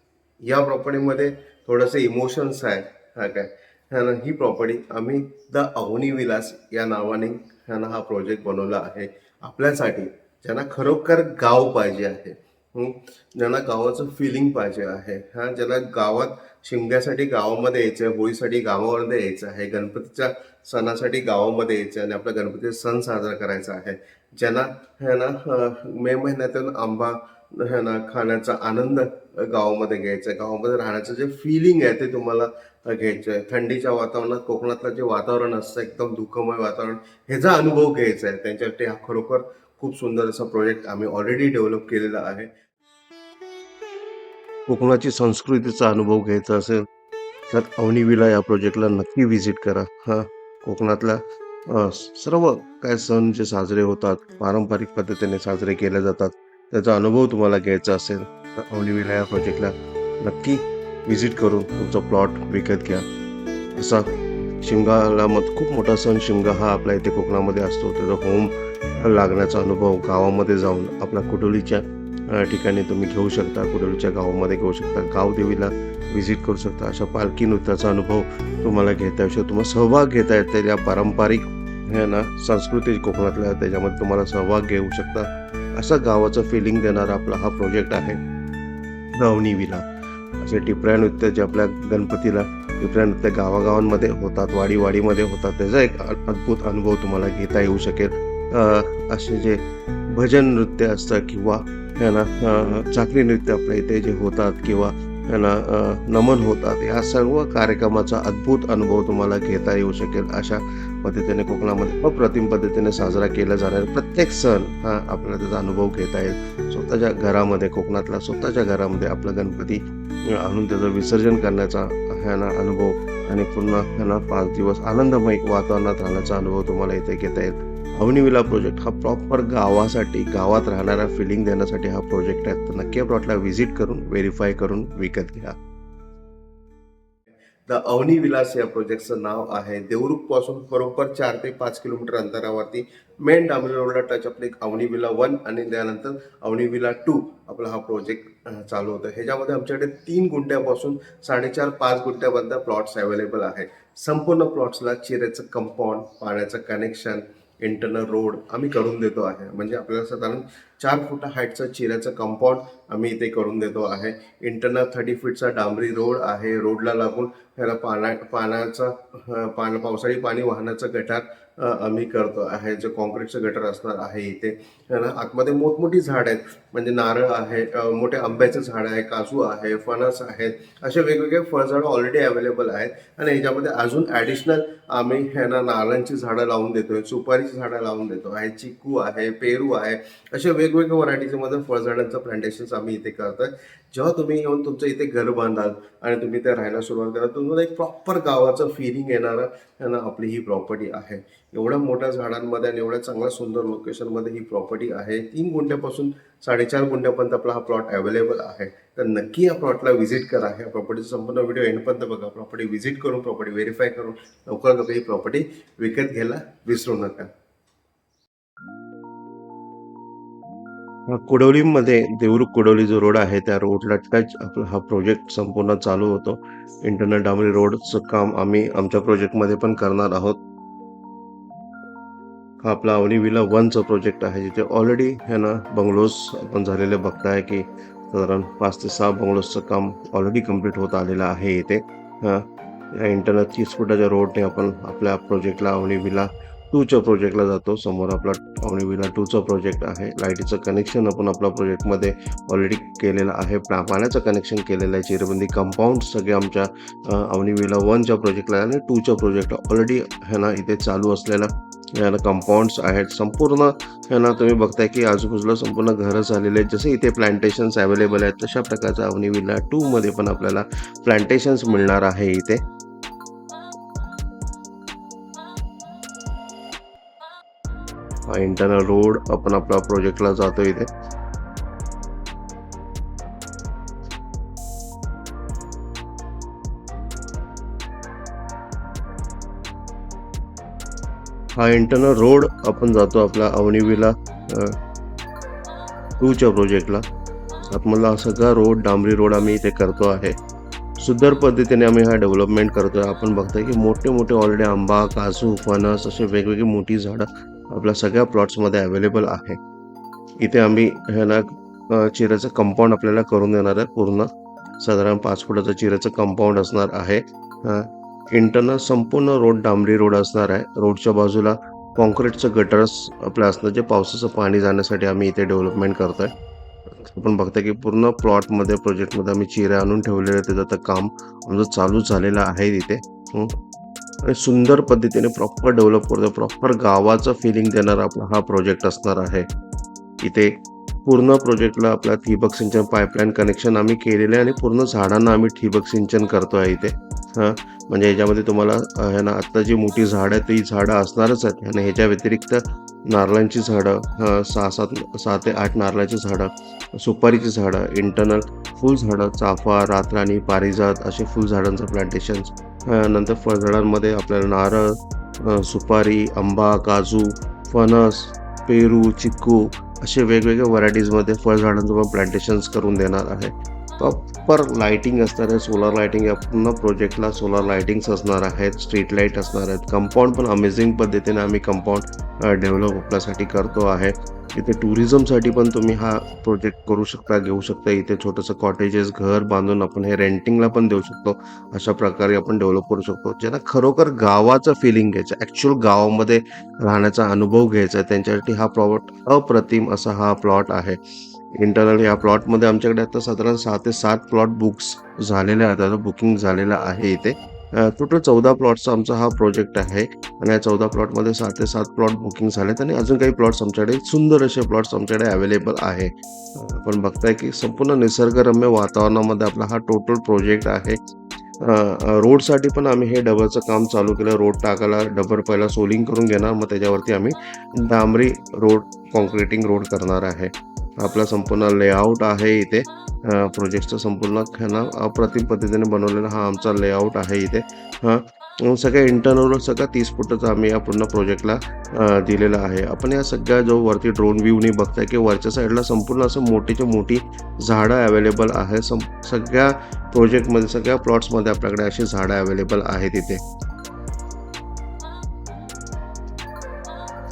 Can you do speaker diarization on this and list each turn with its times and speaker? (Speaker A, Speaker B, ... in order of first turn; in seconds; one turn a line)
Speaker A: 0.4-42.5
Speaker A: 44.7-46.8
Speaker A: 47.5-63.0
Speaker A: 63.8-88.2
Speaker A: 89.2-89.8
Speaker A: 90.4-135.6
Speaker A: 137.7-217.3
Speaker A: 221.1-230.4
Speaker A: 232.6-272.6
Speaker A: 278.3-280.9
Speaker A: 291.6-294.8
Speaker A: 296.2-297.0
Speaker A: 297.7-300.4
Speaker A: 301.0-309.6
Speaker A: 310.4-314.3
Speaker A: 314.8-326.3
Speaker A: 326.9-333.5
Speaker A: 334.3-339.5
Speaker A: 340.2-401.0
Speaker A: 401.5-421.0
Speaker A: 421.6-453.4